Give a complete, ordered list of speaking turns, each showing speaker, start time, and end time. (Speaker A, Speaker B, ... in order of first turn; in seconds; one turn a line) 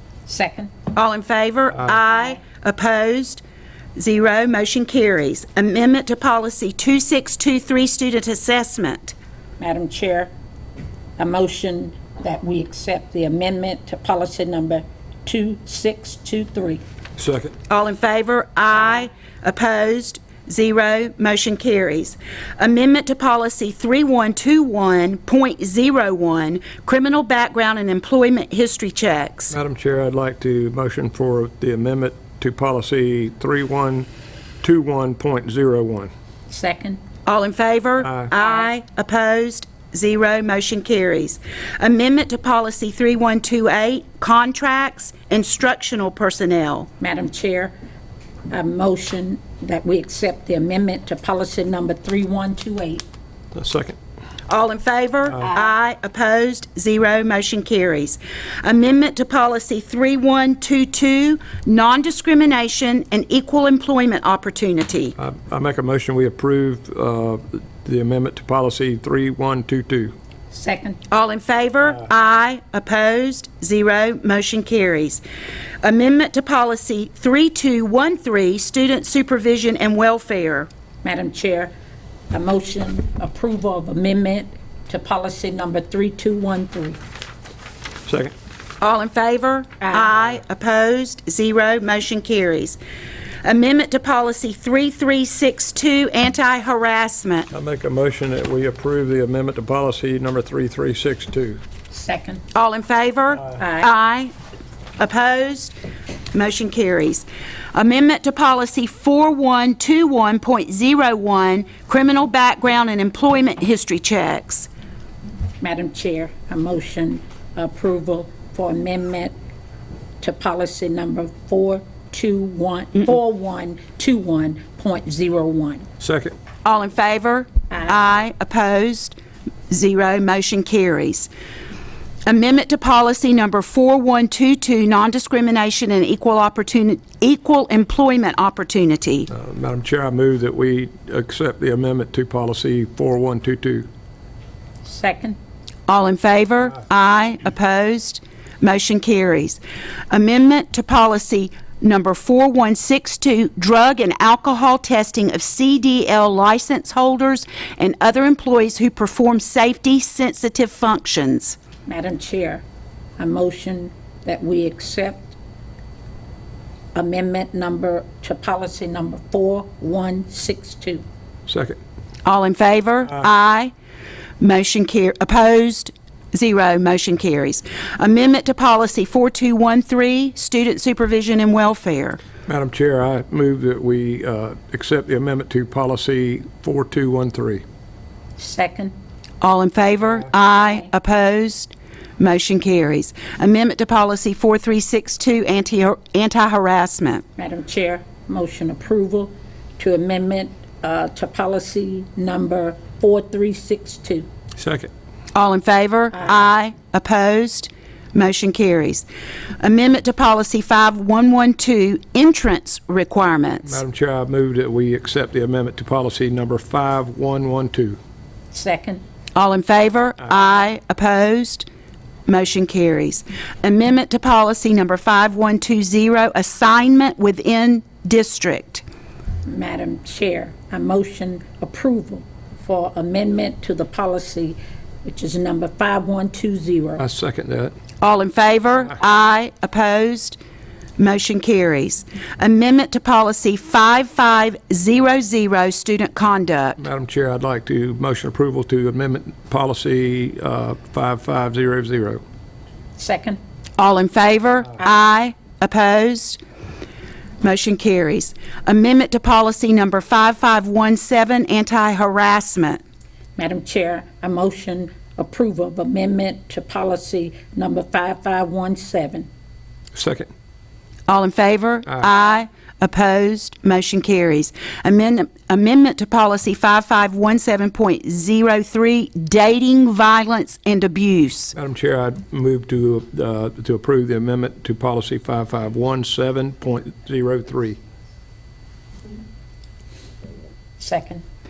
Speaker A: 0.3-0.7
Speaker B: 0.9-3.4
Speaker B: 4.0-9.1
Speaker A: 9.6-10.3
Speaker A: 11.2-16.8
Speaker C: 17.2-17.5
Speaker B: 17.7-29.5
Speaker C: 29.5-34.1
Speaker C: 34.6-36.1
Speaker A: 36.5-37.0
Speaker B: 37.2-46.9
Speaker C: 38.0-38.3
Speaker A: 47.0-47.7
Speaker A: 48.5-53.0
Speaker C: 53.5-54.0
Speaker B: 54.5-65.1
Speaker A: 55.4-55.7
Speaker C: 65.2-70.1
Speaker A: 70.5-71.0
Speaker B: 71.1-75.2
Speaker B: 75.8-80.7
Speaker A: 81.0-81.7
Speaker A: 82.3-87.0
Speaker C: 88.1-88.3
Speaker B: 88.8-92.8
Speaker A: 89.8-90.2
Speaker B: 93.4-97.5
Speaker C: 97.5-101.6
Speaker A: 101.9-102.4
Speaker B: 102.5-104.3
Speaker A: 103.5-103.9
Speaker B: 105.0-105.7
Speaker B: 106.3-114.7
Speaker A: 115.6-119.3
Speaker A: 120.2-125.9
Speaker C: 126.0-126.3
Speaker B: 126.6-129.2
Speaker A: 127.7-128.0
Speaker B: 129.7-131.3
Speaker B: 132.3-139.3
Speaker C: 139.3-143.9
Speaker A: 144.8-145.4
Speaker B: 145.9-149.6
Speaker B: 150.1-161.6
Speaker A: 161.9-162.6
Speaker A: 163.2-165.3
Speaker A: 166.9-171.0
Speaker C: 171.5-171.8
Speaker B: 172.2-173.7
Speaker B: 174.4-182.2
Speaker C: 182.5-187.6
Speaker A: 188.4-188.9
Speaker B: 189.4-197.2
Speaker A: 190.6-190.9
Speaker A: 197.4-204.3
Speaker C: 204.6-204.9
Speaker B: 205.3-209.1
Speaker B: 209.6-213.8
Speaker C: 213.7-218.0
Speaker A: 218.5-219.0
Speaker B: 219.3-221.7
Speaker B: 222.3-228.8
Speaker A: 229.5-237.0
Speaker C: 237.0-237.7
Speaker B: 238.0-240.4
Speaker B: 241.0-246.8
Speaker C: 246.8-252.2
Speaker A: 253.0-253.4
Speaker B: 253.8-256.4
Speaker B: 257.4-262.8
Speaker A: 263.4-269.3
Speaker C: 269.9-270.3
Speaker B: 271.1-281.5
Speaker C: 281.5-287.8
Speaker A: 290.8-291.2